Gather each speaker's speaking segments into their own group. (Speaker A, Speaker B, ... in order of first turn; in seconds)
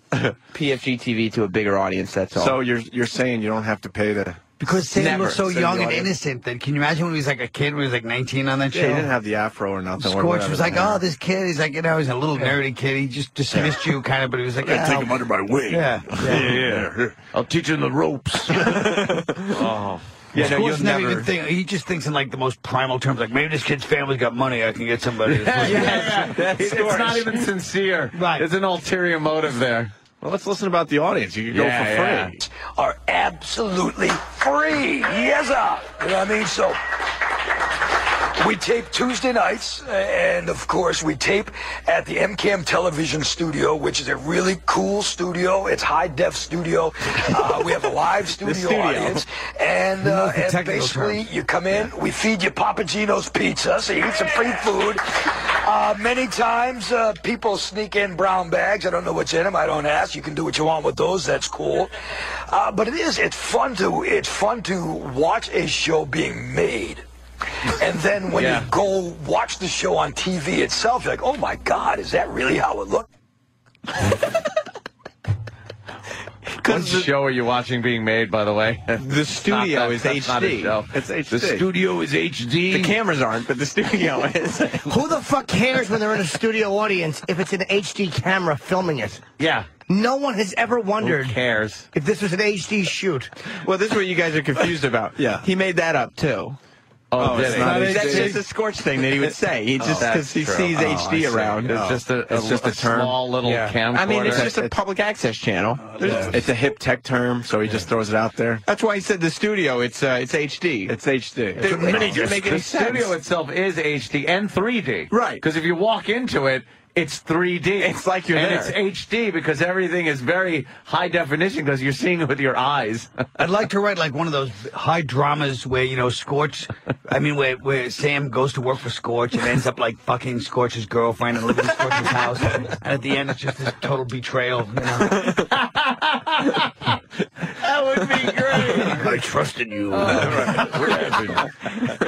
Speaker A: 0.5-2.6, 4.7-5.6, 20.3-21.3, 48.5-49.0, 76.7-77.1, 79.0-80.8, 82.7-84.9, 93.5-96.6, 97.4-101.8, 103.9-106.2, 108.7-110.9, 111.6-112.9, 117.8-118.8
Speaker B: 2.4-4.5, 5.4-6.1, 8.7-11.0, 13.5-13.9, 14.6-17.1, 18.6-19.6, 25.7-27.2, 30.2-32.4, 80.9-81.7, 95.2-95.5, 97.2-98.4, 99.8-100.2, 100.9-103.7, 104.2-104.7, 106.0-108.6, 110.9-112.8, 115.1-115.4, 140.2-140.6
Speaker C: 4.6-9.1, 10.0-16.7, 20.3-26.0, 28.1-28.5, 50.0-51.2, 97.5-98.4, 111.7-112.2, 123.4-135.3, 138.7-139.3
Speaker D: 19.5-20.0, 25.3-29.9, 31.5-32.4, 68.3-68.7, 76.6-82.9, 89.4-89.7, 91.0-91.9, 97.1-98.2, 99.9-104.5, 111.6-123.1, 137.7-139.2, 139.9-141.4
Speaker E: 32.4-36.8, 38.4-61.9, 62.5-67.0, 67.7-73.1
Speaker F: 84.8-89.2, 89.9-91.4, 91.9-93.3, 111.6-112.6